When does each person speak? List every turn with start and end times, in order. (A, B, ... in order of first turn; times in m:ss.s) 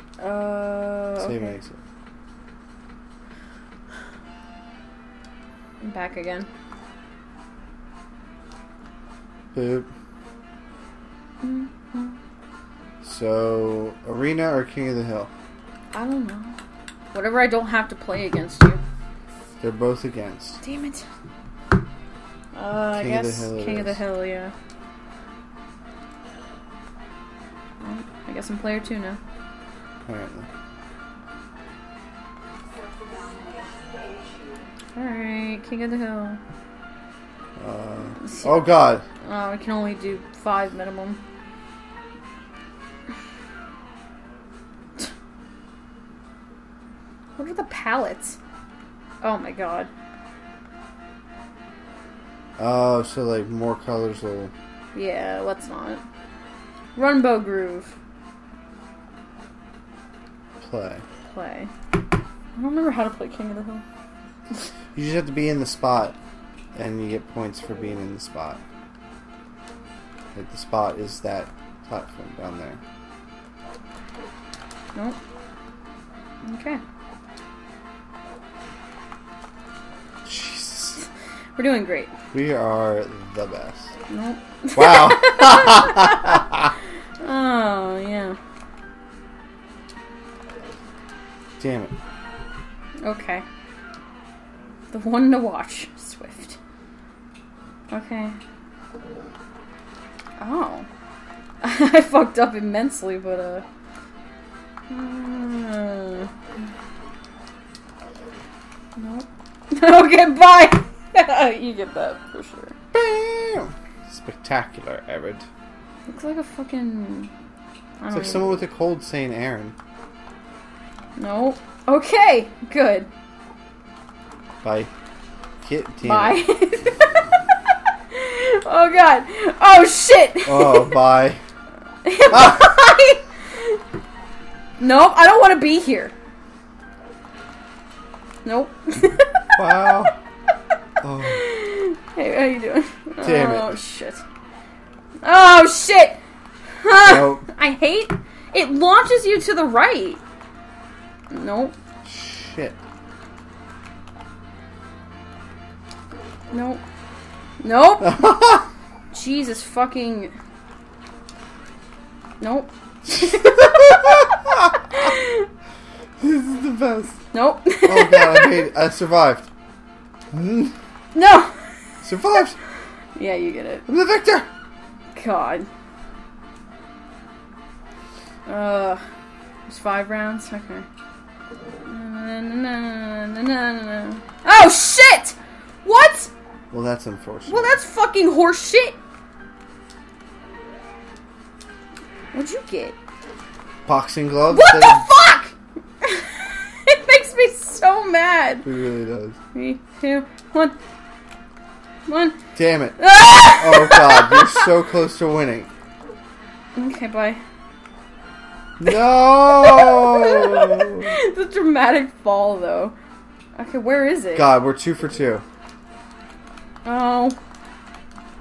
0:00.2-0:01.6 A
0:01.2-0:01.8 B
0:05.8-0:06.5 A
0:09.5-0:09.9 B
0:11.4-0:12.2 A
0:13.0-0:15.3 B
0:15.9-0:16.6 A
0:17.1-0:18.8 A
0:19.6-0:20.6 B
0:20.6-0:21.0 A
0:22.6-0:24.5 A
0:22.9-0:24.0 B
0:27.8-0:29.2 A
0:30.1-0:30.5 B
0:35.0-0:36.4 A
0:37.6-0:39.1 B
0:38.2-0:41.2 A
0:47.4-0:48.4 A
0:49.2-0:49.9 A
0:52.6-0:54.5 B
0:54.9-0:56.0 A
0:57.0-0:58.0 A
1:00.6-1:01.0 B
1:01.3-1:01.7 A
1:02.6-1:03.8 A
1:05.0-1:06.2 B
1:06.8-1:08.6 B
1:10.3-1:12.8 B
1:16.4-1:16.8 A
1:20.2-1:21.0 B
1:21.6-1:22.1 A
1:22.3-1:23.9 B
1:24.1-1:26.5 A
1:24.8-1:26.7 B
1:27.2-1:28.4 A
1:31.6-1:32.0 B
1:33.0-1:33.4 A
1:34.9-1:36.6 A
1:37.9-1:38.4 A
1:40.4-1:40.9 A
1:41.6-1:43.6 A
1:44.9-1:46.3 A
1:49.0-1:52.8 A
1:52.9-1:55.5 B
1:56.1-1:57.3 A
1:58.0-1:58.6 A
1:58.1-1:59.8 B
2:01.2-2:03.1 A
2:04.6-2:04.9 B
2:05.6-2:06.4 B
2:06.0-2:07.3 A
2:08.1-2:11.0 A
2:10.4-2:11.4 B
2:12.0-2:13.8 A
2:12.3-2:12.7 B
2:14.8-2:16.1 A
2:18.4-2:19.5 A
2:19.6-2:20.2 B
2:21.0-2:21.4 B
2:21.2-2:24.2 A
2:23.2-2:23.8 B
2:25.2-2:26.2 A
2:26.8-2:30.2 A
2:27.0-2:27.4 B
2:31.3-2:31.8 A
2:32.0-2:32.8 B
2:36.5-2:36.8 A
2:37.6-2:38.5 A
2:38.0-2:38.6 B
2:39.1-2:40.3 A
2:42.4-2:44.4 A
2:43.1-2:45.0 B
2:44.9-2:45.5 A
2:46.2-2:47.2 B
2:47.3-2:48.6 A
2:47.9-2:49.5 B
2:50.3-2:50.7 B
2:51.2-2:51.8 A
2:52.0-2:52.6 B
2:53.2-2:53.8 A
2:53.9-2:54.5 B
2:55.2-2:55.7 A
2:58.5-2:59.0 A
2:59.7-3:00.9 A
3:01.9-3:06.3 A
3:06.7-3:07.8 B
3:07.5-3:09.0 A
3:12.3-3:13.0 A
3:13.8-3:15.1 B
3:14.5-3:18.7 A
3:18.6-3:19.4 B
3:19.5-3:20.8 A
3:22.1-3:22.4 A
3:22.6-3:25.7 B
3:23.0-3:24.7 A
3:26.8-3:27.4 A
3:28.8-3:31.2 B
3:29.6-3:33.0 A
3:33.6-3:34.5 A
3:34.4-3:35.4 B
3:36.8-3:37.4 A